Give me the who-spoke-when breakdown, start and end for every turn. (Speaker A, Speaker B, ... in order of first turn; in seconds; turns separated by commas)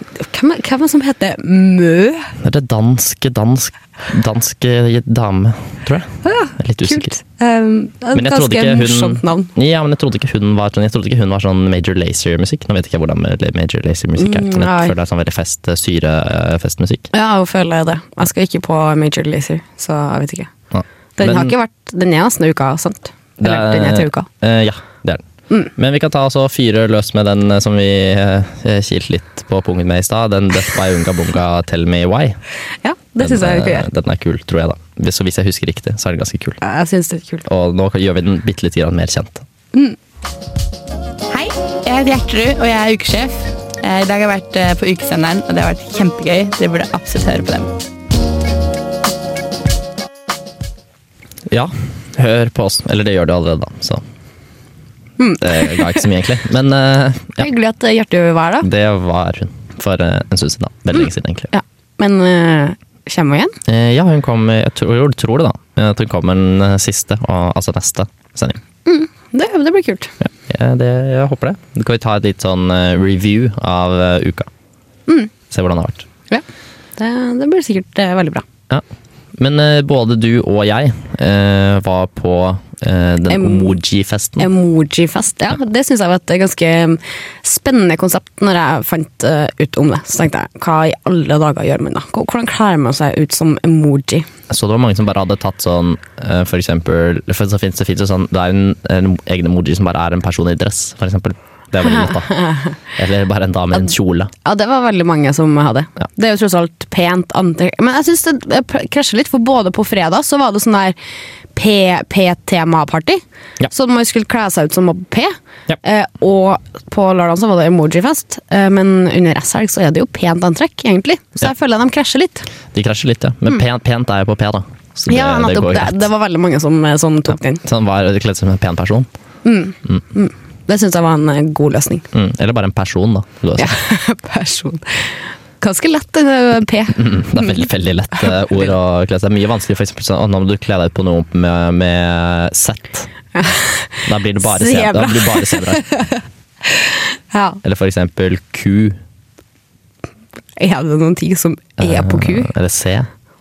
Speaker A: 0.2-2.3, Speaker B: 2.4-7.1, Speaker A: 6.2-9.5, Speaker B: 8.1-17.1, Speaker A: 14.2-14.9, Speaker A: 17.1-20.5, Speaker B: 20.7-21.6, Speaker A: 21.2-24.3, Speaker B: 23.4-25.2, Speaker B: 25.8-32.4, Speaker A: 32.8-33.9, Speaker B: 33.2-36.6, Speaker A: 36.6-37.5, Speaker B: 37.5-39.5, Speaker C: 41.3-47.7, Speaker B: 51.5-54.0, Speaker A: 55.2-56.1, Speaker B: 55.4-57.5, Speaker A: 57.4-58.7, Speaker B: 58.6-61.5, Speaker A: 61.0-63.6, Speaker B: 63.7-68.6, Speaker A: 68.9-70.1, Speaker B: 70.2-74.5, Speaker B: 75.5-76.1, Speaker A: 77.0-78.5, Speaker B: 79.4-84.5, Speaker A: 83.3-83.8, Speaker A: 84.4-94.3, Speaker B: 94.5-102.3, Speaker A: 101.8-102.7, Speaker B: 103.0-104.3, Speaker A: 104.5-111.0, Speaker A: 111.5-122.5, Speaker B: 122.7-126.1, Speaker A: 125.1-127.6, Speaker B: 127.6-129.1, Speaker A: 129.4-132.1, Speaker B: 132.1-133.8, Speaker A: 133.6-137.7, Speaker B: 136.9-143.1, Speaker A: 138.2-138.7, Speaker A: 143.3-147.6, Speaker B: 144.1-145.9, Speaker B: 147.6-149.0, Speaker A: 150.6-152.5, Speaker B: 151.8-153.1